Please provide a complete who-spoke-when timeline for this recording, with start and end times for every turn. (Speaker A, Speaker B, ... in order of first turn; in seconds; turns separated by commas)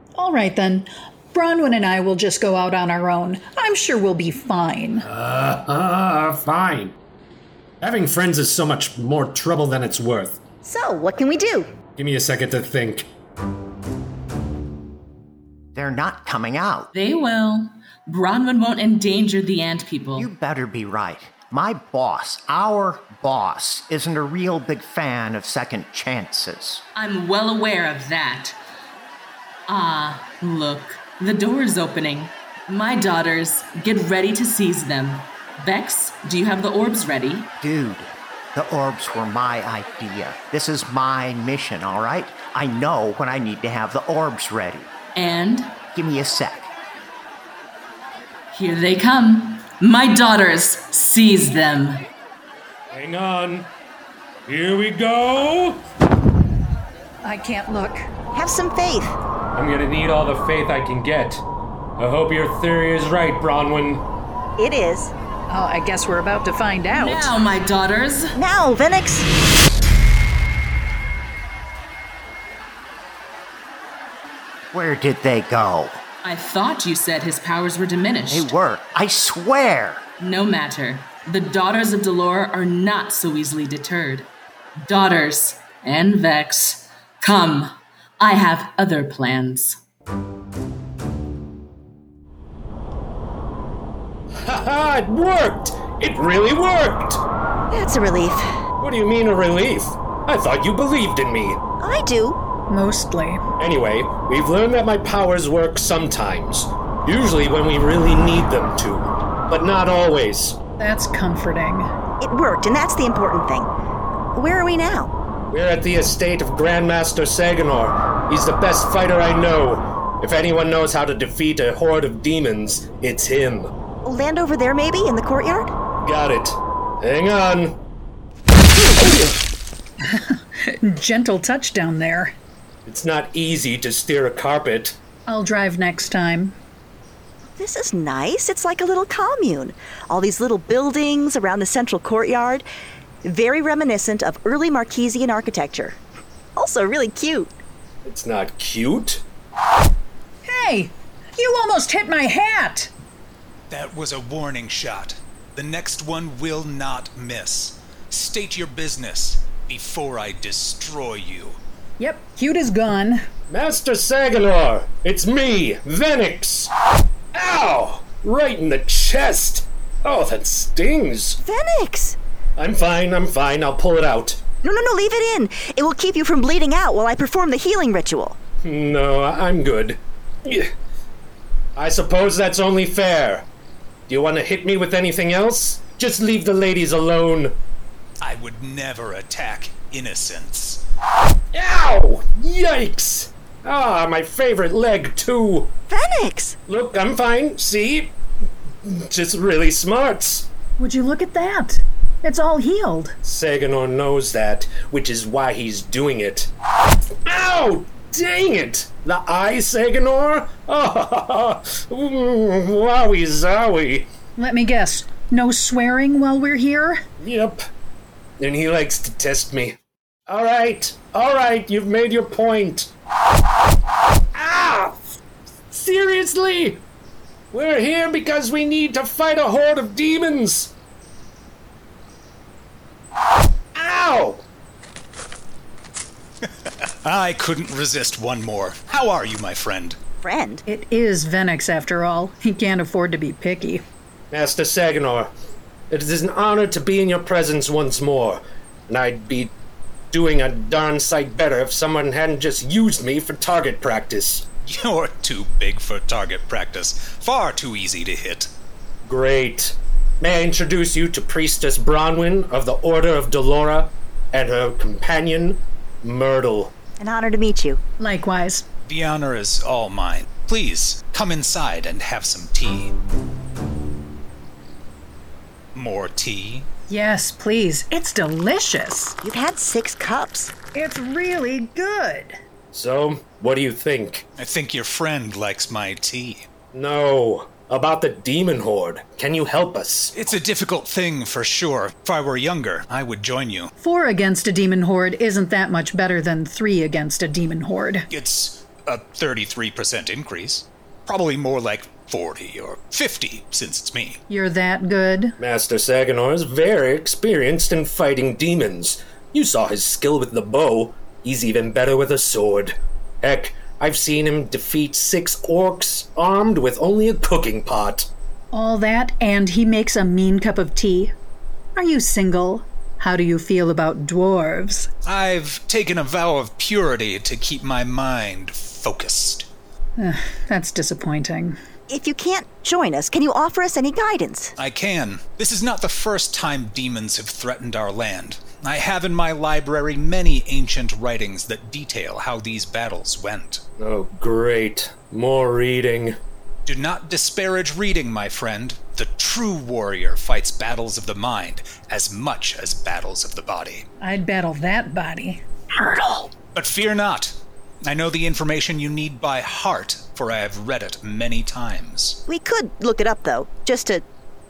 Speaker A: 0.2-5.0, Speaker B: 5.0-7.0, Speaker B: 7.8-10.4, Speaker C: 10.6-11.7, Speaker B: 12.0-13.1, Speaker D: 15.8-16.9, Speaker E: 16.9-20.3, Speaker D: 20.1-26.8, Speaker E: 27.0-28.5, Speaker E: 29.7-37.5, Speaker D: 37.6-44.9, Speaker E: 45.1-45.8, Speaker D: 45.9-46.7, Speaker E: 48.5-52.0, Speaker B: 52.9-53.7, Speaker B: 54.5-55.8, Speaker A: 57.2-58.0, Speaker C: 58.3-59.2, Speaker B: 59.5-61.4, Speaker B: 62.0-64.1, Speaker C: 64.6-65.1, Speaker A: 65.5-67.4, Speaker E: 66.9-68.3, Speaker C: 68.4-69.3, Speaker D: 74.7-76.0, Speaker E: 76.2-78.5, Speaker D: 78.3-80.0, Speaker E: 80.2-84.3, Speaker E: 84.8-89.8, Speaker B: 94.4-97.2, Speaker C: 97.7-98.5, Speaker B: 98.8-101.6, Speaker C: 101.8-102.4, Speaker A: 102.7-103.4, Speaker B: 103.6-110.6, Speaker A: 110.8-111.9, Speaker C: 112.2-113.7, Speaker C: 114.3-115.1, Speaker B: 115.5-123.7, Speaker C: 124.0-125.7, Speaker B: 126.0-127.8, Speaker A: 130.1-132.3, Speaker B: 132.9-135.0, Speaker A: 135.3-136.6, Speaker C: 137.5-142.6, Speaker C: 143.2-146.0, Speaker C: 146.6-147.5, Speaker B: 148.0-149.2, Speaker A: 150.5-152.9, Speaker F: 153.7-161.6, Speaker A: 162.0-163.2, Speaker B: 163.5-166.7, Speaker B: 167.3-171.4, Speaker C: 171.4-172.2, Speaker B: 172.6-174.4, Speaker C: 174.6-178.4, Speaker B: 178.6-180.7, Speaker B: 181.8-183.5, Speaker B: 184.1-187.6, Speaker F: 188.2-190.8, Speaker B: 191.5-195.7, Speaker C: 195.9-196.6, Speaker B: 196.7-198.1, Speaker B: 198.8-200.5, Speaker A: 200.8-203.2, Speaker B: 203.2-206.5, Speaker B: 207.2-214.1, Speaker A: 214.4-217.0, Speaker B: 217.2-217.6, Speaker B: 218.4-219.8, Speaker B: 220.3-222.9, Speaker B: 224.3-225.0, Speaker B: 225.7-226.8, Speaker B: 227.5-230.7, Speaker B: 233.7-234.4, Speaker F: 236.6-240.0, Speaker C: 240.2-240.6, Speaker A: 240.7-243.8, Speaker B: 244.3-245.3, Speaker B: 245.9-249.5, Speaker B: 250.1-254.5, Speaker F: 254.6-258.5, Speaker B: 259.0-266.7, Speaker C: 267.0-267.8, Speaker A: 268.0-268.6, Speaker F: 268.9-272.9, Speaker F: 275.8-276.7, Speaker A: 276.9-279.1, Speaker C: 279.2-280.5, Speaker A: 280.8-282.4, Speaker B: 282.7-284.3, Speaker F: 284.4-286.5, Speaker B: 286.7-290.1, Speaker F: 290.1-293.7, Speaker A: 293.8-298.1, Speaker F: 298.1-304.2, Speaker A: 304.3-305.3, Speaker B: 305.4-318.1, Speaker A: 318.5-321.1, Speaker A: 321.8-324.9, Speaker F: 325.0-329.5, Speaker A: 330.0-331.5, Speaker C: 331.9-334.5, Speaker F: 334.6-343.6, Speaker B: 343.8-346.2, Speaker F: 346.6-353.9, Speaker A: 354.0-355.4, Speaker C: 355.8-356.3, Speaker F: 356.5-357.4, Speaker F: 357.9-362.2, Speaker C: 362.3-364.0